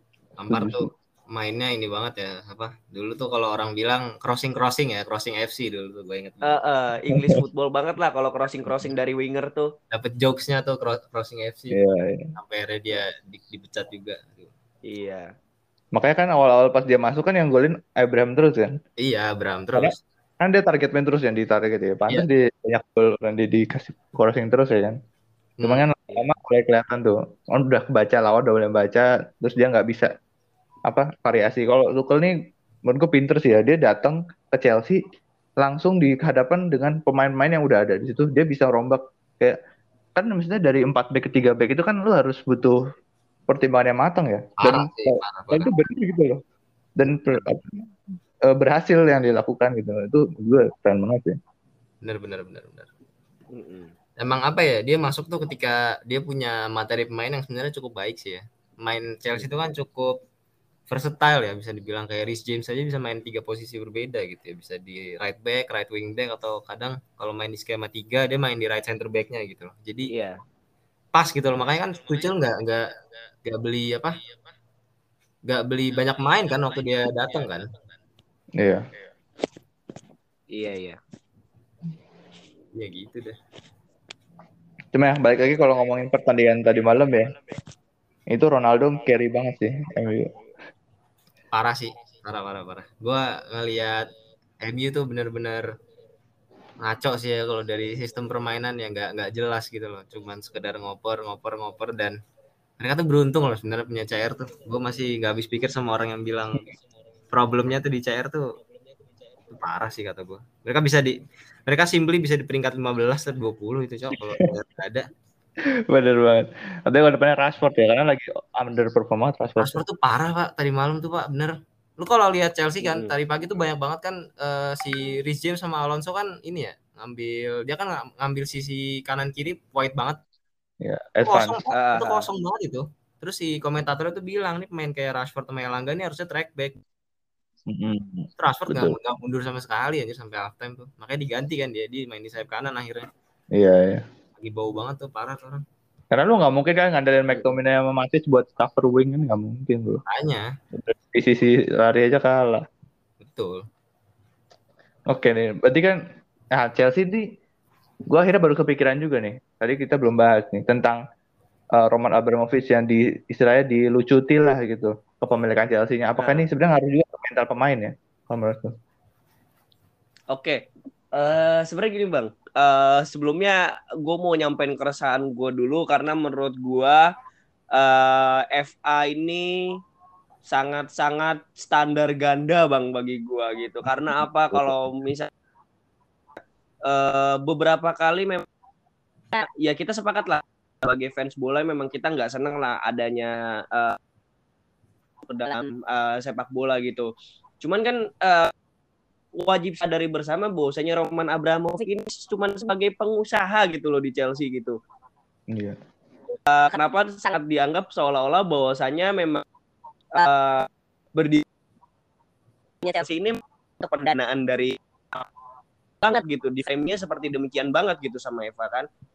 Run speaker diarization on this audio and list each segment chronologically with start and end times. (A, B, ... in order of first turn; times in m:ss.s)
0:00.4-0:06.6 A
0:00.5-0:00.9 B
0:06.4-0:09.7 C
0:07.1-0:07.4 B
0:09.9-0:11.8 A
0:11.7-0:12.3 B
0:12.4-0:14.5 A
0:14.9-0:15.3 C
0:15.9-0:18.7 B
0:19.0-0:20.0 A
0:19.8-0:25.0 B
0:25.6-0:25.9 A
0:25.6-0:30.1 B
0:30.9-0:32.4 B
0:32.9-0:35.0 B
0:35.6-0:39.6 B
0:40.2-0:42.8 B
0:43.5-0:46.4 B
0:44.6-0:45.7 A
0:47.0-0:47.8 B
0:48.5-0:51.4 B
0:52.0-0:52.9 A
0:53.5-0:53.9 C
0:54.2-1:00.2 A
1:00.9-1:10.1 A
1:10.1-1:10.4 C
1:11.1-1:12.9 A
1:13.4-1:14.2 A
1:15.5-1:17.7 A
1:18.6-1:18.8 B
1:20.5-1:21.0 C
1:22.7-1:23.4 A
1:24.9-1:27.3 B
1:28.3-1:30.3 B
1:31.5-1:34.1 A
1:34.6-1:35.6 A
1:36.8-1:42.2 A
1:42.8-1:46.7 A
1:47.3-1:48.6 A
1:49.5-1:55.0 A
1:54.2-1:54.5 B
1:55.9-1:59.8 B
1:59.6-2:10.2 A
2:02.8-2:03.1 C
2:10.8-2:11.6 B
2:11.2-2:16.8 A
2:11.7-2:12.3 C
2:17.7-2:19.0 B
2:18.4-2:23.1 A
2:23.6-2:24.0 B
2:24.4-2:25.6 A
2:26.1-2:30.0 B
2:30.1-2:30.5 A
2:30.7-2:32.6 B
2:33.2-2:33.6 A
2:35.1-2:36.0 B
2:36.6-2:37.2 B
2:38.1-2:41.0 B
2:41.8-2:48.8 B
2:46.2-2:46.5 C
2:50.3-2:50.6 C
2:51.1-2:57.0 C
2:57.7-2:59.6 C
3:00.5-3:05.3 C
3:06.9-3:08.5 C
3:09.3-3:14.0 C
3:15.3-3:17.1 C
3:17.6-3:18.5 C
3:19.4-3:24.8 C
3:25.5-3:25.8 B
3:26.5-3:29.4 C
3:30.1-3:31.4 C
3:32.8-3:35.2 C
3:36.0-3:38.9 C